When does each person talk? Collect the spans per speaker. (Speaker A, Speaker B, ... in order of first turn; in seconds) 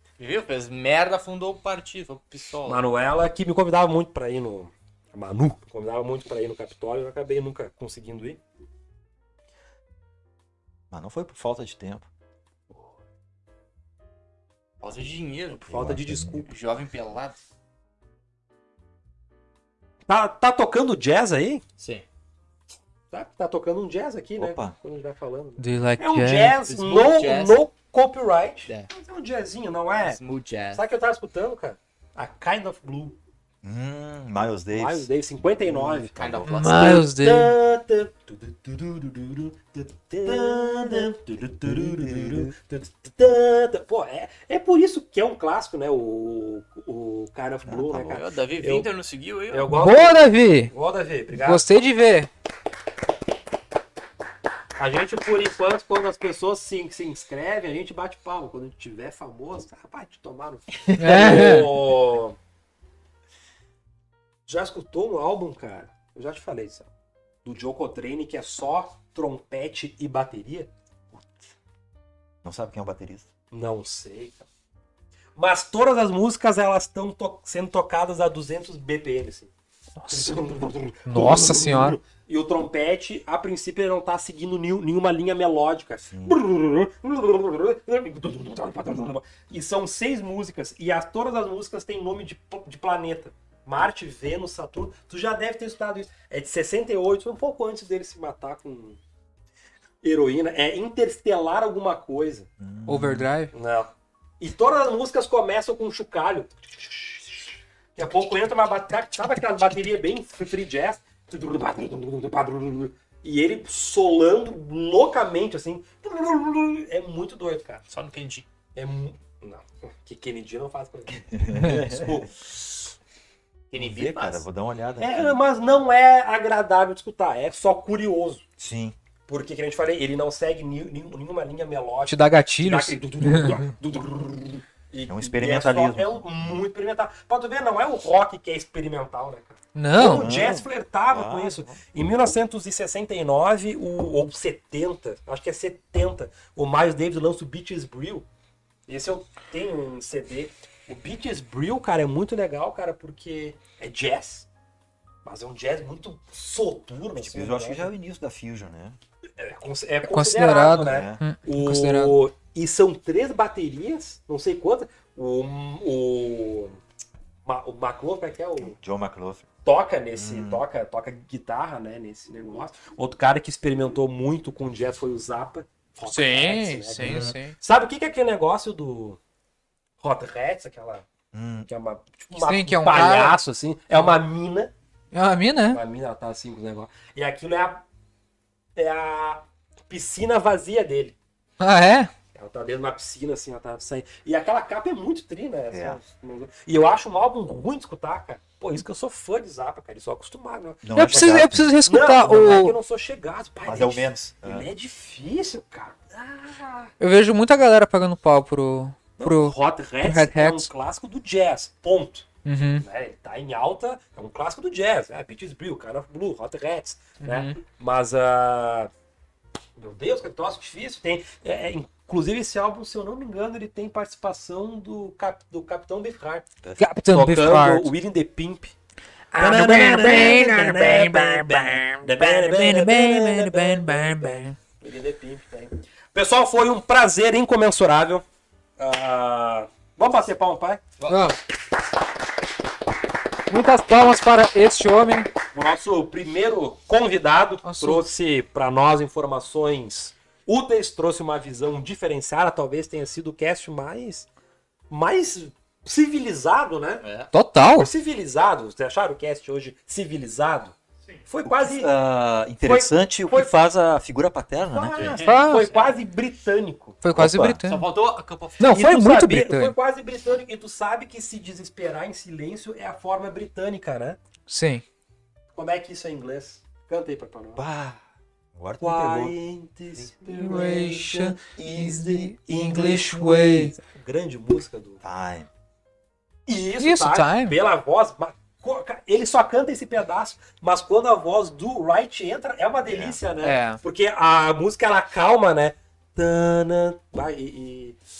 Speaker A: 0.2-2.8, 14.8-15.7, 16.4-17.4, 21.8-22.0, 26.7-27.6, 29.9-30.8, 36.1-37.0, 48.1-49.7, 117.9-118.5, 123.7-124.4, 257.0-257.3, 264.9-265.9, 267.6-268.7
Speaker B: 2.7-8.4, 15.6-16.5, 20.1-21.6, 23.1-30.2, 30.7-33.2, 34.7-48.9, 49.5-51.6, 54.8-62.4, 64.5-66.9, 67.4-70.7, 73.5-74.5, 75.3-79.5, 80.1-99.0, 100.0-102.5, 103.5-117.8, 118.7-122.5, 125.0-128.4, 129.3-148.2, 148.9-154.5, 155.2-157.9, 159.4-166.8, 167.4-168.8, 169.6-179.2, 180.0-181.1, 181.7-184.7, 185.7-187.8, 188.8-191.2, 192.3-206.9, 209.2-212.3, 212.8-218.9, 219.8-226.5, 227.1-228.7, 229.3-238.2, 238.8-240.8, 245.5-254.3, 254.9-257.0, 257.7-260.7, 261.3-261.9, 262.6-263.5, 264.7-267.0, 268.6-274.2, 275.5-277.6, 278.8-285.0, 286.4-298.0
Speaker C: 10.9-12.1, 15.7-16.4, 24.4-24.8, 33.6-36.8, 40.2-41.1, 41.6-42.5, 47.6-48.2, 71.1-71.4, 72.4-73.3, 86.1-86.4, 102.6-103.3, 121.3-122.2, 123.8-125.4, 128.6-128.9, 135.1-136.2, 140.0-141.8, 157.2-159.0, 160.8-161.2, 168.6-169.5, 170.1-170.6, 177.0-177.3, 181.3-181.7, 195.7-196.0, 200.8-201.8, 203.6-204.7, 261.4-265.2, 267.1-267.6, 277.6-278.0, 278.5-279.4, 281.5-282.4, 285.0-285.5, 292.8-293.2
Speaker D: 25.6-26.6, 36.5-37.6, 49.7-50.7, 51.3-52.3, 61.0-61.7, 80.0-80.5, 81.0-82.0, 102.8-103.5, 132.1-133.6, 139.7-140.3, 160.0-162.2, 176.0-177.6, 182.3-183.4, 185.1-185.8, 191.6-192.1, 200.9-202.8, 207.0-210.7, 212.4-212.8, 217.2-217.5, 226.8-227.9, 229.3-234.5, 241.1-241.4, 243.5-245.3, 247.6-248.1, 257.3-257.9, 265.2-265.7, 267.0-267.8, 268.6-269.7, 274.5-274.8, 280.3-283.7, 286.8-287.6, 293.4-293.8